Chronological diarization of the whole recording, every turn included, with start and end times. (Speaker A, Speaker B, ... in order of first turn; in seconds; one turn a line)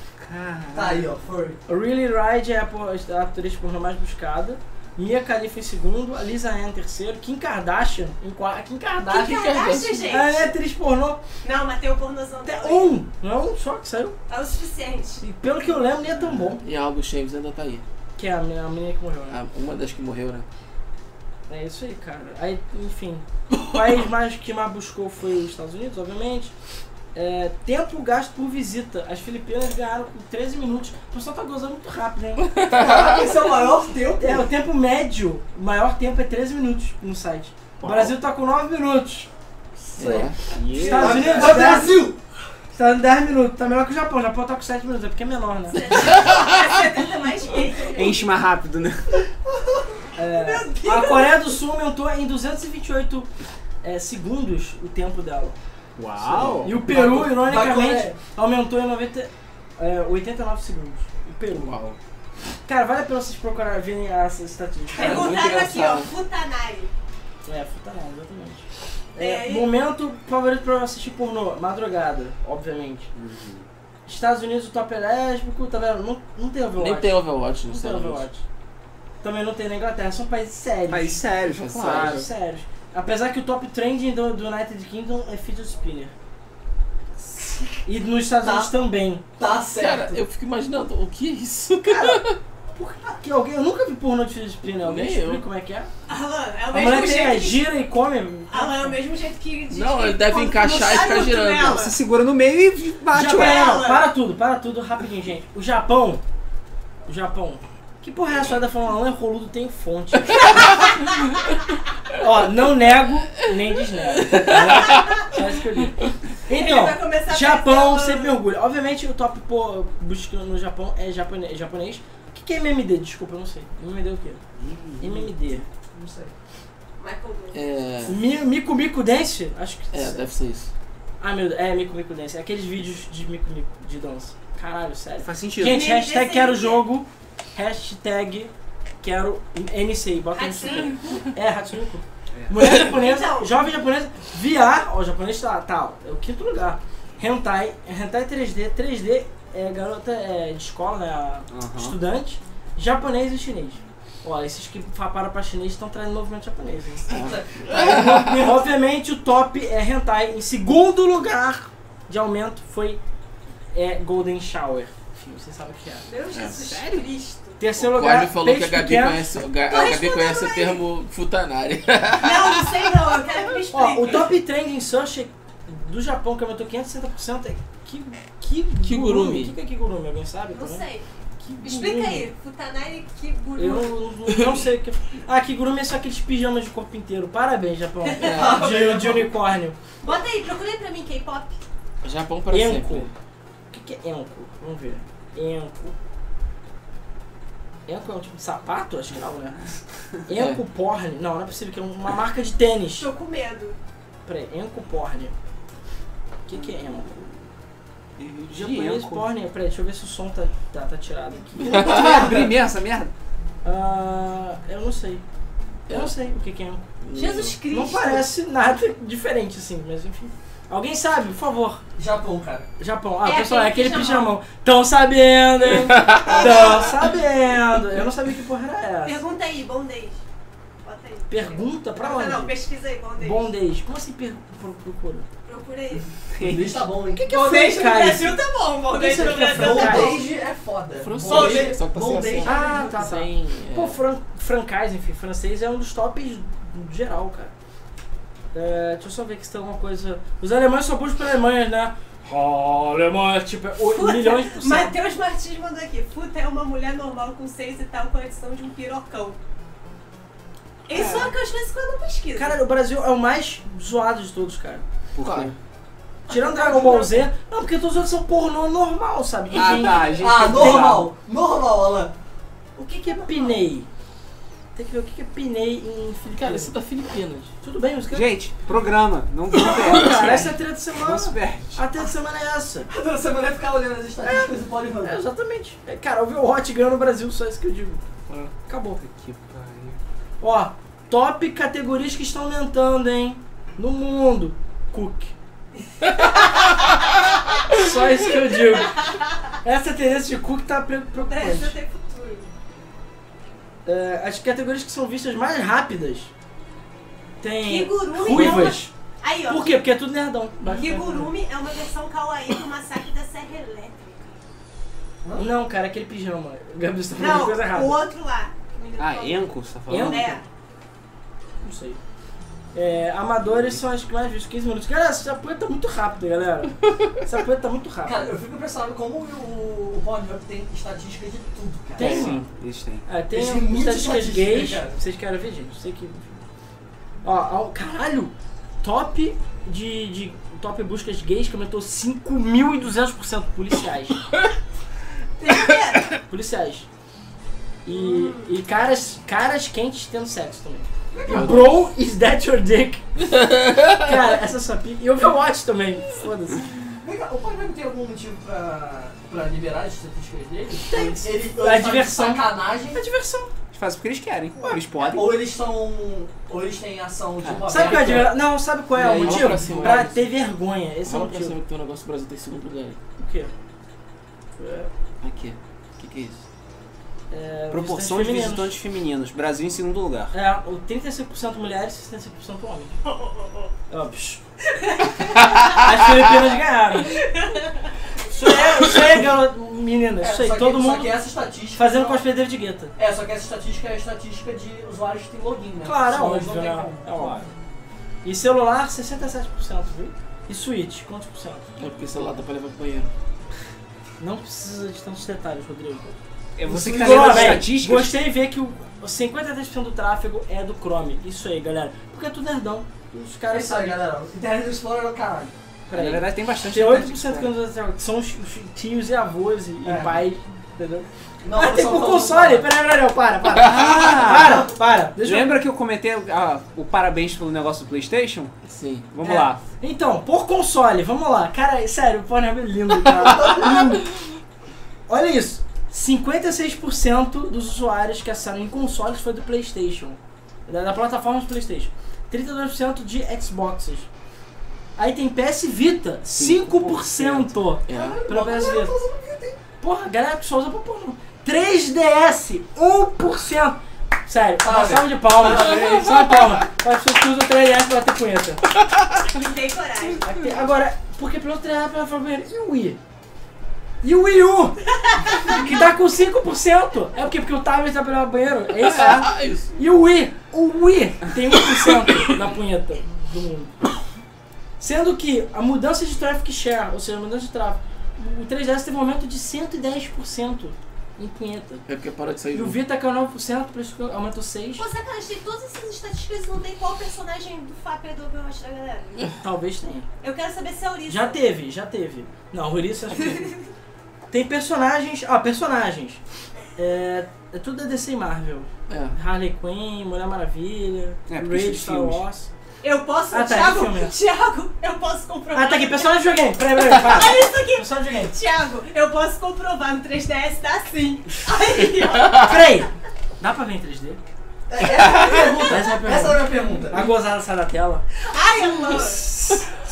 Speaker A: 0.2-1.2
Speaker B: 0.7-1.6
Speaker C: 1.7-9.5
Speaker D: 9.1-10.5
Speaker E: 9.1-10.2
Speaker C: 10.0-11.2
Speaker D: 11.4-13.0
Speaker C: 12.4-14.2
Speaker D: 14.3-15.2
Speaker C: 15.2-16.6
Speaker E: 16.6-17.8
Speaker C: 18.2-19.4
Speaker E: 19.3-20.5
Speaker C: 21.5-26.5
Speaker C: 27.1-32.5
Speaker E: 32.5-33.3
Speaker B: 32.7-34.5
Speaker C: 34.2-39.3
Speaker A: 37.8-38.1
Speaker E: 40.0-40.4
Speaker B: 40.0-42.2
Speaker A: 40.5-41.8
Speaker C: 40.8-42.1
Speaker C: 42.7-45.9
Speaker D: 45.7-48.3
Speaker E: 45.9-46.7
Speaker A: 47.9-49.2
Speaker C: 50.2-53.3
Speaker D: 50.3-51.5
Speaker C: 53.8-55.6
Speaker A: 56.0-56.8
Speaker E: 56.2-56.7
Speaker C: 56.6-61.8
Speaker B: 56.8-58.2
Speaker E: 61.5-62.0
Speaker C: 62.7-65.6
Speaker D: 64.9-66.9
Speaker E: 65.0-66.1
Speaker C: 67.5-73.1
Speaker D: 69.2-69.7
Speaker A: 73.1-73.7
Speaker C: 74.1-78.4
Speaker E: 76.8-78.3
Speaker C: 79.2-86.1
Speaker A: 80.9-82.3
Speaker E: 81.5-82.2
Speaker C: 87.8-89.2
Speaker B: 88.4-88.7
Speaker B: 89.4-90.2
Speaker E: 89.7-92.4
Speaker C: 91.8-95.9
Speaker E: 94.8-95.4
Speaker D: 96.1-97.7
Speaker C: 96.7-99.0
Speaker D: 98.5-102.0
Speaker E: 99.7-101.9
Speaker A: 101.6-103.8
Speaker C: 103.1-106.2
Speaker D: 103.3-104.1
Speaker C: 107.1-110.8
Speaker C: 112.1-124.4
Speaker E: 114.2-115.2
Speaker D: 116.5-118.4
Speaker A: 124.6-125.4
Speaker C: 125.0-125.7
Speaker B: 125.9-126.3
Speaker D: 127.0-127.6
Speaker E: 127.5-128.2
Speaker C: 128.1-130.3
Speaker E: 129.9-130.7
Speaker C: 131.2-138.5
Speaker A: 135.2-135.9
Speaker D: 135.6-136.8
Speaker C: 139.0-157.1
Speaker D: 140.3-141.3
Speaker D: 142.6-143.6
Speaker A: 151.5-152.0
Speaker B: 157.1-157.7
Speaker E: 157.1-158.6
Speaker C: 157.7-163.0
Speaker C: 163.7-166.1
Speaker D: 166.1-167.6
Speaker E: 166.3-166.6
Speaker A: 166.5-167.1
Speaker C: 167.6-169.3
Speaker E: 167.8-172.9
Speaker D: 169.7-170.8
Speaker D: 172.2-174.3
Speaker C: 173.7-180.9
Speaker E: 178.8-179.5
Speaker D: 180.5-181.1
Speaker C: 181.4-182.3
Speaker D: 181.6-184.0
Speaker C: 183.6-189.8
Speaker E: 184.3-184.6
Speaker D: 188.0-189.0
Speaker E: 188.2-188.7
Speaker B: 188.2-189.3
Speaker D: 190.0-191.6
Speaker E: 192.0-193.1
Speaker C: 192.5-193.1
Speaker C: 193.7-195.9
Speaker C: 197.9-199.7
Speaker C: 200.2-203.1
Speaker D: 202.9-203.8
Speaker C: 204.2-205.3
Speaker C: 206.5-207.4
Speaker A: 208.2-209.3
Speaker C: 208.5-212.5
Speaker E: 211.6-212.3
Speaker A: 211.7-213.1
Speaker C: 213.6-215.2
Speaker C: 215.9-216.9
Speaker E: 217.1-217.6
Speaker D: 217.1-218.3
Speaker C: 217.7-221.8
Speaker B: 222.0-222.7
Speaker C: 222.8-229.2
Speaker D: 223.2-224.3
Speaker E: 225.7-226.8
Speaker B: 226.3-226.9
Speaker D: 229.0-230.2
Speaker D: 230.8-233.5
Speaker C: 231.3-232.6
Speaker C: 233.2-235.3
Speaker D: 235.5-236.1
Speaker A: 236.3-236.9
Speaker B: 236.4-237.3
Speaker C: 237.2-240.2
Speaker D: 237.2-240.3
Speaker B: 239.2-242.7
Speaker E: 241.0-244.0
Speaker D: 241.3-241.8
Speaker C: 242.4-247.5
Speaker C: 248.5-255.0
Speaker D: 253.8-259.4
Speaker D: 260.9-262.6
Speaker A: 260.9-261.3
Speaker C: 262.4-264.9
Speaker A: 265.1-265.6
Speaker E: 265.2-265.5
Speaker C: 266.3-271.0
Speaker B: 266.3-267.1
Speaker A: 269.5-271.1
Speaker B: 270.2-272.1
Speaker D: 272.8-273.6
Speaker C: 272.8-273.9
Speaker C: 274.8-276.8
Speaker E: 276.3-277.5
Speaker C: 277.6-278.3
Speaker A: 278.1-281.8
Speaker C: 279.6-282.9
Speaker B: 282.9-285.2
Speaker C: 284.2-288.0
Speaker A: 288.3-290.0
Speaker C: 288.7-289.0
Speaker C: 290.4-295.3
Speaker C: 297.7-299.1
Speaker C: 299.6-301.8
Speaker D: 301.2-302.5
Speaker C: 303.9-306.3
Speaker C: 307.4-308.9
Speaker D: 307.6-309.9
Speaker E: 308.3-308.7
Speaker C: 309.5-311.3
Speaker D: 310.6-314.3
Speaker C: 315.4-318.0
Speaker D: 317.1-320.4
Speaker A: 319.0-320.4
Speaker C: 319.9-320.4
Speaker C: 321.6-322.0
Speaker C: 322.7-328.4
Speaker A: 323.5-323.8
Speaker B: 328.0-332.3
Speaker C: 332.0-332.5
Speaker E: 332.0-332.3
Speaker A: 332.5-333.1
Speaker C: 333.1-336.4
Speaker B: 333.3-335.0
Speaker C: 337.2-344.2
Speaker D: 345.4-346.1
Speaker C: 346.2-346.9
Speaker C: 347.8-353.2
Speaker D: 347.9-348.5
Speaker E: 351.2-351.8
Speaker E: 353.3-354.1
Speaker C: 353.9-356.7
Speaker B: 357.0-363.0
Speaker C: 360.8-363.5
Speaker A: 363.7-365.4
Speaker B: 365.0-368.4
Speaker A: 367.4-368.3
Speaker C: 367.7-371.6
Speaker E: 369.0-370.3
Speaker A: 369.1-370.0
Speaker E: 371.1-373.0
Speaker C: 373.2-373.5
Speaker C: 374.6-374.9
Speaker A: 375.2-376.4
Speaker C: 377.3-378.8
Speaker A: 377.7-380.3
Speaker C: 380.3-383.0
Speaker D: 383.2-383.5
Speaker C: 383.9-384.4
Speaker D: 384.7-385.8
Speaker C: 385.7-387.2
Speaker D: 387.0-387.9
Speaker C: 388.3-391.2
Speaker B: 390.2-392.2
Speaker C: 391.8-392.9
Speaker B: 393.0-397.4
Speaker C: 395.8-397.4
Speaker A: 397.2-397.4
Speaker C: 398.2-401.7
Speaker E: 401.8-403.1
Speaker C: 404.2-406.2
Speaker A: 406.6-408.2
Speaker B: 406.7-407.7
Speaker C: 406.9-414.0
Speaker B: 413.5-415.5
Speaker C: 415.9-425.6
Speaker A: 415.9-417.6
Speaker B: 419.9-420.2
Speaker B: 421.4-422.7
Speaker A: 423.5-428.5
Speaker B: 424.2-424.6
Speaker E: 428.7-429.1
Speaker A: 429.1-429.6
Speaker C: 429.2-434.1
Speaker B: 433.3-433.8
Speaker C: 435.1-444.1
Speaker C: 445.0-448.9
Speaker A: 446.4-447.5
Speaker E: 447.9-448.2
Speaker B: 447.9-449.6
Speaker C: 449.8-458.6
Speaker B: 454.6-456.2
Speaker D: 459.2-460.3
Speaker C: 460.2-463.0
Speaker C: 464.0-473.7
Speaker D: 465.2-465.6
Speaker E: 468.8-469.7
Speaker A: 468.9-469.3
Speaker C: 474.8-481.9
Speaker E: 481.9-482.8
Speaker C: 482.5-484.9
Speaker D: 484.8-489.3
Speaker C: 489.4-490.1
Speaker D: 490.2-491.4
Speaker C: 491.1-493.6
Speaker C: 494.3-496.2
Speaker C: 496.8-502.5
Speaker E: 498.9-499.1
Speaker A: 501.3-502.2
Speaker D: 502.8-506.2
Speaker C: 503.3-504.2
Speaker C: 505.5-508.4
Speaker D: 506.9-512.5
Speaker C: 512.3-514.2
Speaker B: 514.7-517.1
Speaker C: 515.7-518.0
Speaker D: 518.3-519.3
Speaker C: 519.0-519.6